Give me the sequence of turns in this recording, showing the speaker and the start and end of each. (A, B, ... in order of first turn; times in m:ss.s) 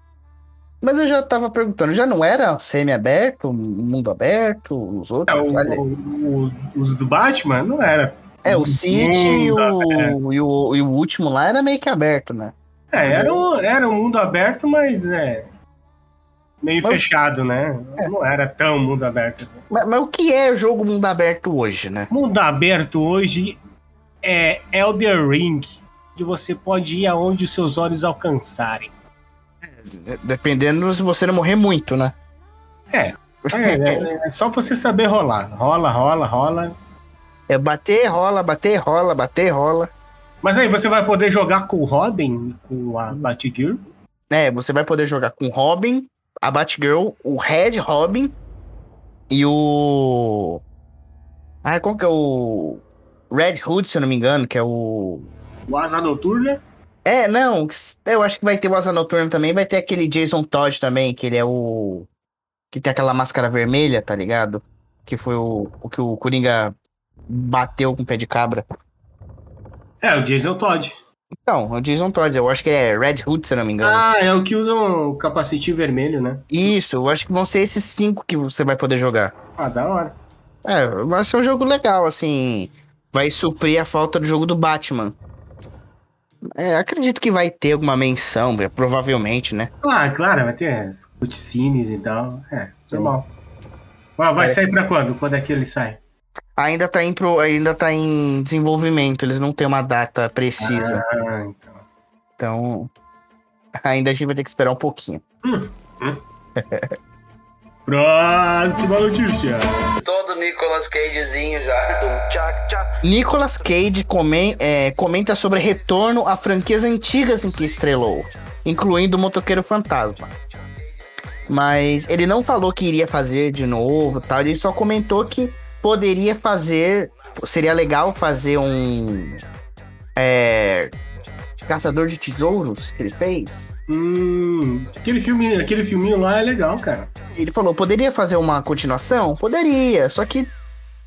0:00.8-0:05.8 A
0:05.3-0:10.2 B
0:08.4-0:13.4 A
0:12.9-0:15.5 B
0:16.6-0:19.6 B
0:19.7-0:22.1 A
0:22.1-0:23.6 B
0:24.2-0:28.9 B
0:29.6-0:32.2 A
0:32.9-0:36.7 B
0:33.5-0:34.0 A
0:37.5-0:39.9 A
0:40.4-0:43.8 B
0:44.3-0:48.4 A
0:49.3-0:50.6 A
0:51.6-0:55.3 A
0:55.7-0:56.6 B
0:57.0-1:02.1 A
1:02.7-1:06.8 A
1:07.3-1:08.6 A
1:10.0-1:11.0 B
1:11.5-1:14.0 A
1:13.8-1:16.7 B
1:16.5-1:19.4 A
1:19.6-1:20.2 B
1:20.6-1:25.2 A
1:26.4-1:29.7 A
1:29.8-1:33.3 B
1:34.2-1:36.0 B
1:36.6-1:41.0 A
1:40.6-1:41.8 B
1:42.4-1:42.9 A
1:43.8-1:45.2 A
1:45.4-1:46.2 B
1:46.6-1:46.9 A
1:47.9-1:50.0 B
1:50.0-1:53.0 C
1:53.0-2:00.3 A
2:01.5-2:09.4 A
2:10.2-2:10.9 A
2:11.6-2:13.7 A
2:13.9-2:17.1 B
2:17.3-2:20.5 A